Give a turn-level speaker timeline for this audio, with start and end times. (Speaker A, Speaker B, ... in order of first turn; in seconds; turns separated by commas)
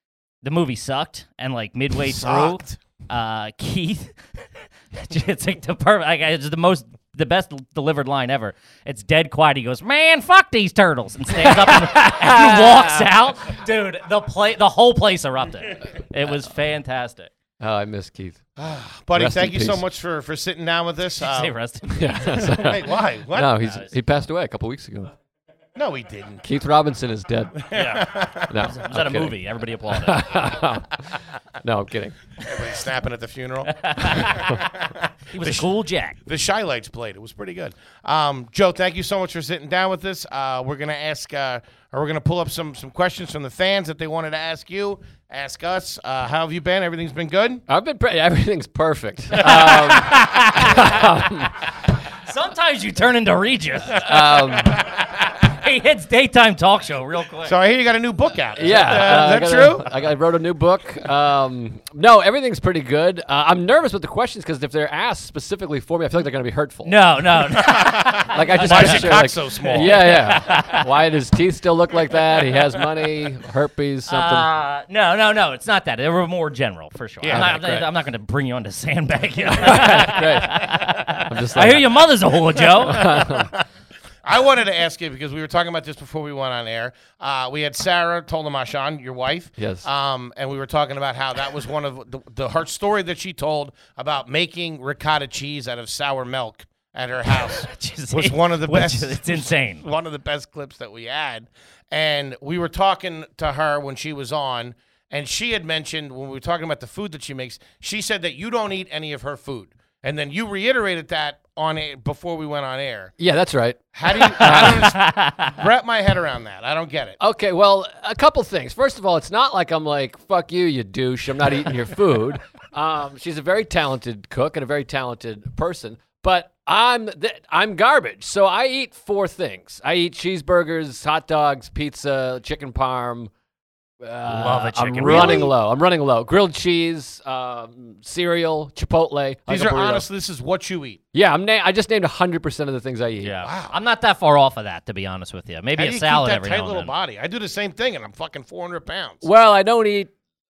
Speaker A: 0.4-4.1, Speaker B: 2.0-2.8, Speaker A: 4.9-17.3, Speaker C: 11.7-13.1, Speaker C: 17.6-18.4, Speaker B: 18.6-21.5, Speaker C: 19.1-19.8, Speaker A: 21.2-22.6, Speaker C: 21.9-25.1, Speaker B: 22.4-23.6, Speaker A: 23.6-23.9, Speaker B: 25.8-26.4, Speaker C: 26.4-27.7, Speaker B: 27.7-28.6, Speaker A: 27.7-30.5, Speaker C: 28.5-29.3, Speaker C: 29.9-32.1, Speaker B: 32.4-35.7, Speaker A: 33.8-34.6, Speaker A: 35.3-36.2, Speaker B: 36.2-47.6, Speaker C: 47.7-51.5, Speaker A: 49.4-51.2, Speaker A: 52.1-57.5, Speaker C: 53.9-54.8, Speaker B: 57.4-59.9, Speaker C: 58.6-66.9, Speaker A: 66.8-70.9, Speaker B: 67.5-70.1, Speaker C: 68.3-74.5, Speaker A: 74.1-83.3, Speaker B: 77.2-77.5, Speaker C: 77.3-77.9, Speaker C: 79.5-82.0, Speaker C: 82.8-83.5, Speaker B: 83.3-83.5, Speaker B: 84.2-113.1, Speaker C: 89.6-89.8, Speaker A: 97.3-99.8, Speaker C: 113.2-114.9, Speaker B: 113.9-117.2, Speaker A: 114.1-115.5, Speaker C: 117.2-133.3, Speaker C: 134.0-140.1, Speaker A: 134.3-135.5, Speaker B: 135.0-135.5, Speaker B: 139.5-141.0, Speaker C: 141.1-143.3, Speaker A: 143.2-146.9, Speaker B: 143.4-143.7, Speaker B: 145.7-149.2, Speaker C: 149.2-150.1